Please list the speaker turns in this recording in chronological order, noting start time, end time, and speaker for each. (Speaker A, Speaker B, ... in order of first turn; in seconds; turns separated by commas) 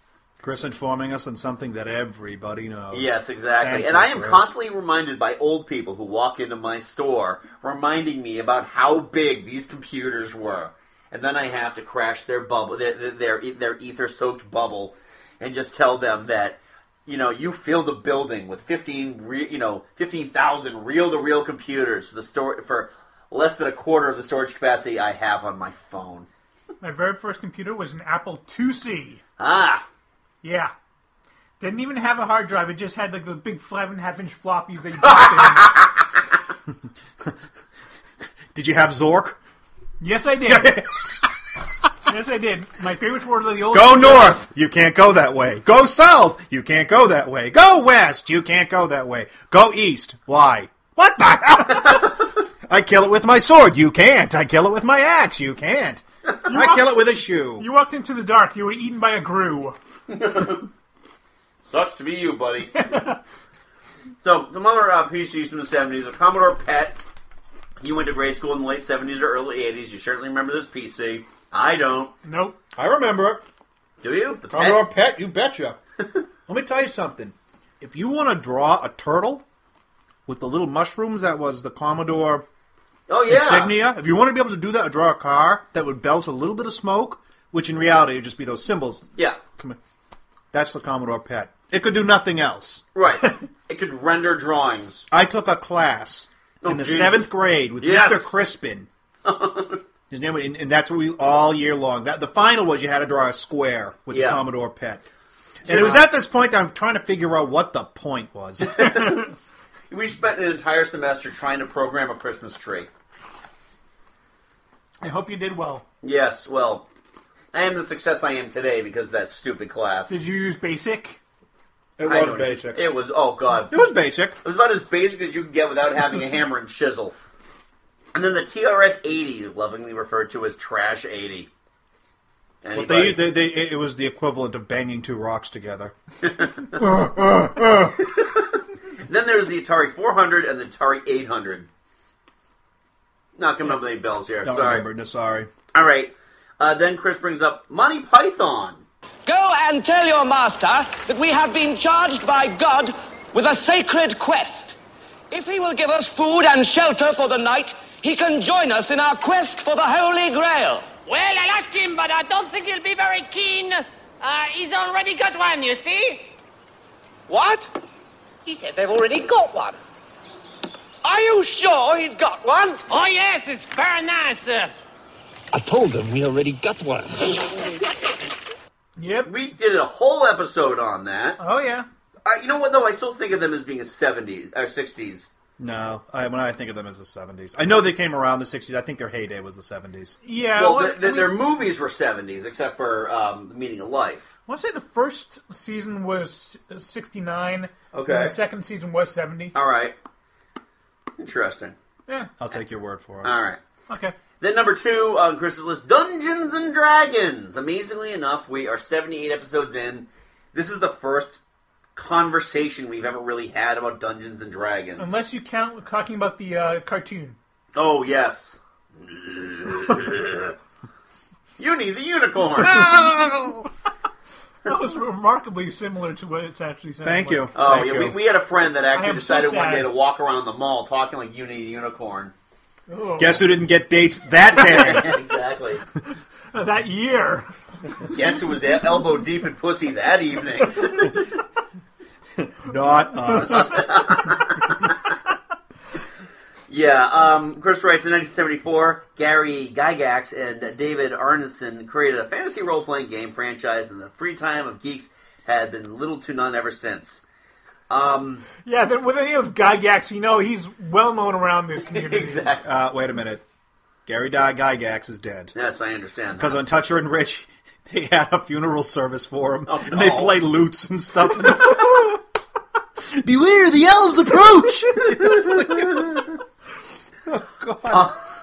Speaker A: 0.4-4.5, Speaker B: 2.9-26.3, Speaker C: 26.8-29.2, Speaker B: 29.4-29.9, Speaker C: 30.4-30.7, Speaker C: 31.6-35.7, Speaker A: 38.5-39.4, Speaker C: 40.0-40.8, Speaker A: 40.5-40.9, Speaker C: 42.1-44.4, Speaker A: 43.7-57.6, Speaker C: 56.5-59.8, Speaker B: 60.1-60.7, Speaker B: 61.6-62.8, Speaker C: 62.8-63.2, Speaker B: 64.2-67.0, Speaker B: 67.8-72.1, Speaker C: 72.2-72.6, Speaker A: 72.8-73.4, Speaker B: 74.0-74.8, Speaker A: 74.5-75.8, Speaker A: 76.5-79.5, Speaker A: 80.3-82.5, Speaker B: 83.1-83.7, Speaker A: 83.3-89.8, Speaker A: 90.5-92.8, Speaker B: 93.0-95.1, Speaker A: 95.1-98.9, Speaker B: 96.6-97.3, Speaker B: 97.8-98.3, Speaker B: 99.2-99.8, Speaker A: 100.1-105.0, Speaker B: 104.1-104.4, Speaker B: 105.7-106.1, Speaker A: 105.7-108.8, Speaker B: 108.7-109.2, Speaker B: 109.9-112.9, Speaker C: 115.0-115.8, Speaker B: 116.0-116.8, Speaker B: 117.5-120.1, Speaker C: 120.1-121.2, Speaker A: 122.0-122.8, Speaker B: 122.0-123.7, Speaker A: 123.7-124.4, Speaker B: 124.4-127.2, Speaker B: 128.1-131.5, Speaker B: 132.6-133.2, Speaker A: 132.7-135.9, Speaker B: 136.3-136.8, Speaker A: 136.8-138.0, Speaker B: 139.1-141.7, Speaker B: 143.4-144.8, Speaker A: 144.4-145.5, Speaker B: 145.7-148.8, Speaker D: 149.3-154.8, Speaker D: 155.3-160.9, Speaker E: 161.0-166.3, Speaker D: 167.3-167.7, Speaker D: 168.5-169.8, Speaker D: 171.0-172.8, Speaker E: 172.9-174.7, Speaker D: 175.5-177.4, Speaker C: 179.0-179.3, Speaker B: 179.3-181.4, Speaker C: 181.4-181.9, Speaker B: 182.2-185.3, Speaker A: 185.6-190.2, Speaker C: 190.2-191.3, Speaker B: 190.6-194.3, Speaker C: 194.5-199.6, Speaker B: 197.9-198.3, Speaker B: 199.5-200.0, Speaker B: 201.2-201.8, Speaker A: 202.4-203.3, Speaker B: 203.2-203.6, Speaker C: 203.9-204.1, Speaker B: 204.4-211.4, Speaker B: 212.0-215.1, Speaker C: 215.0-217.4, Speaker B: 217.8-220.5, Speaker B: 221.6-222.9, Speaker A: 222.6-223.7, Speaker C: 224.7-227.5, Speaker A: 227.0-228.2, Speaker B: 227.6-232.3, Speaker C: 229.0-229.9, Speaker C: 232.9-233.5, Speaker A: 233.2-235.1, Speaker B: 234.6-235.8, Speaker C: 236.5-237.5, Speaker B: 238.1-241.2, Speaker A: 242.4-243.8, Speaker B: 243.4-244.7, Speaker B: 246.7-257.2, Speaker B: 257.9-258.4, Speaker C: 258.6-262.5, Speaker B: 261.9-262.6, Speaker A: 262.6-263.4, Speaker A: 264.1-265.5, Speaker B: 265.6-266.6, Speaker A: 266.3-272.1, Speaker B: 269.7-270.4, Speaker A: 273.1-276.4, Speaker A: 277.3-278.1